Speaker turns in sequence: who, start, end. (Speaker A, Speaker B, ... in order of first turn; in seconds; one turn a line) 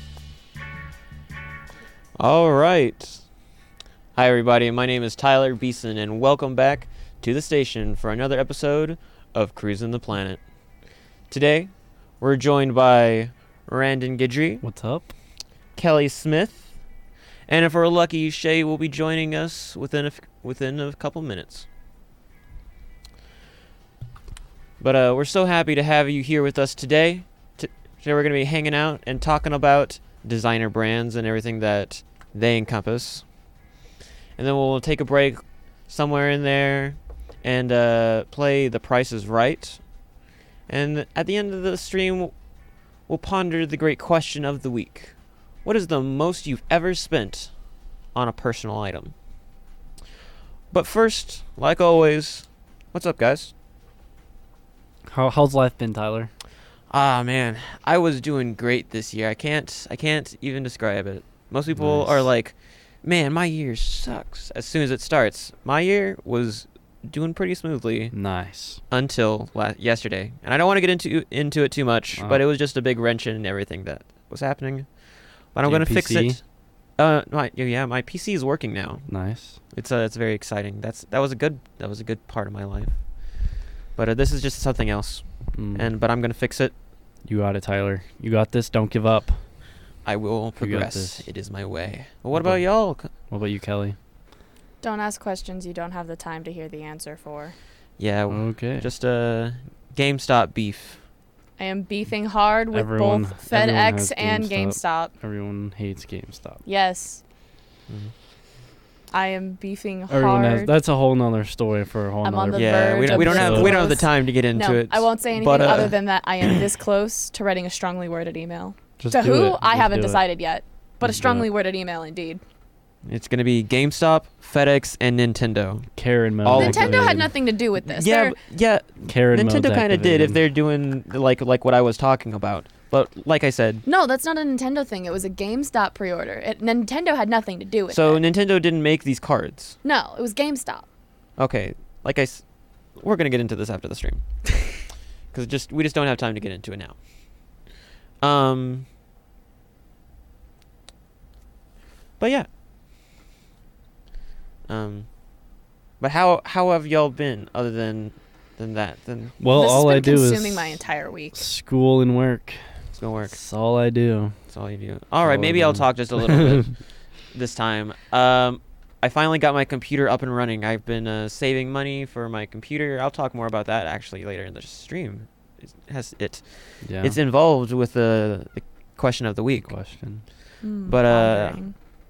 Speaker A: 2.2-3.2
Speaker A: 4.2-10.4
Speaker A: 11.3-14.6
Speaker B: 14.6-15.1
Speaker A: 15.8-16.7
Speaker A: 17.5-21.7
Speaker A: 24.8-33.3
Speaker A: 34.4-39.8
Speaker A: 40.7-42.3
Speaker A: 43.1-47.5
Speaker A: 48.1-49.1
Speaker A: 50.7-53.5
Speaker B: 55.1-56.3
Speaker A: 56.9-68.1
Speaker B: 61.8-62.3
Speaker B: 68.1-68.8
Speaker A: 68.9-74.9
Speaker B: 72.2-72.4
Speaker A: 75.5-76.4
Speaker B: 75.7-76.4
Speaker A: 77.0-79.1
Speaker B: 79.1-79.6
Speaker A: 79.7-83.0
Speaker A: 84.0-86.7
Speaker B: 85.5-85.9
Speaker B: 87.2-89.4
Speaker A: 90.0-93.1
Speaker B: 90.6-91.3
Speaker B: 92.3-92.7
Speaker B: 93.3-94.0
Speaker C: 94.8-97.5
Speaker A: 98.0-101.0
Speaker B: 98.3-98.9
Speaker C: 101.6-105.1
Speaker B: 102.7-106.6
Speaker C: 106.7-107.2
Speaker C: 109.1-110.8
Speaker B: 110.1-113.9
Speaker C: 112.2-122.4
Speaker A: 112.5-116.6
Speaker B: 119.0-120.2
Speaker B: 121.0-121.5
Speaker A: 123.0-125.9
Speaker B: 126.0-127.3
Speaker A: 126.4-127.3
Speaker C: 126.5-128.4
Speaker A: 127.8-133.8
Speaker B: 129.0-130.4
Speaker C: 133.9-138.2
Speaker A: 137.9-139.8
Speaker C: 139.8-140.9
Speaker A: 141.4-142.4
Speaker A: 143.0-144.2
Speaker A: 145.3-147.0
Speaker A: 148.2-148.9
Speaker A: 152.2-152.5
Speaker A: 154.7-155.1
Speaker A: 156.0-159.4
Speaker B: 159.4-160.8
Speaker C: 159.5-161.4
Speaker B: 161.3-162.6
Speaker A: 162.9-163.4
Speaker B: 163.3-164.4
Speaker A: 164.5-166.8
Speaker B: 165.2-166.7
Speaker A: 167.3-179.7
Speaker B: 176.8-177.2
Speaker B: 179.7-180.2
Speaker C: 180.6-181.7
Speaker A: 180.9-181.6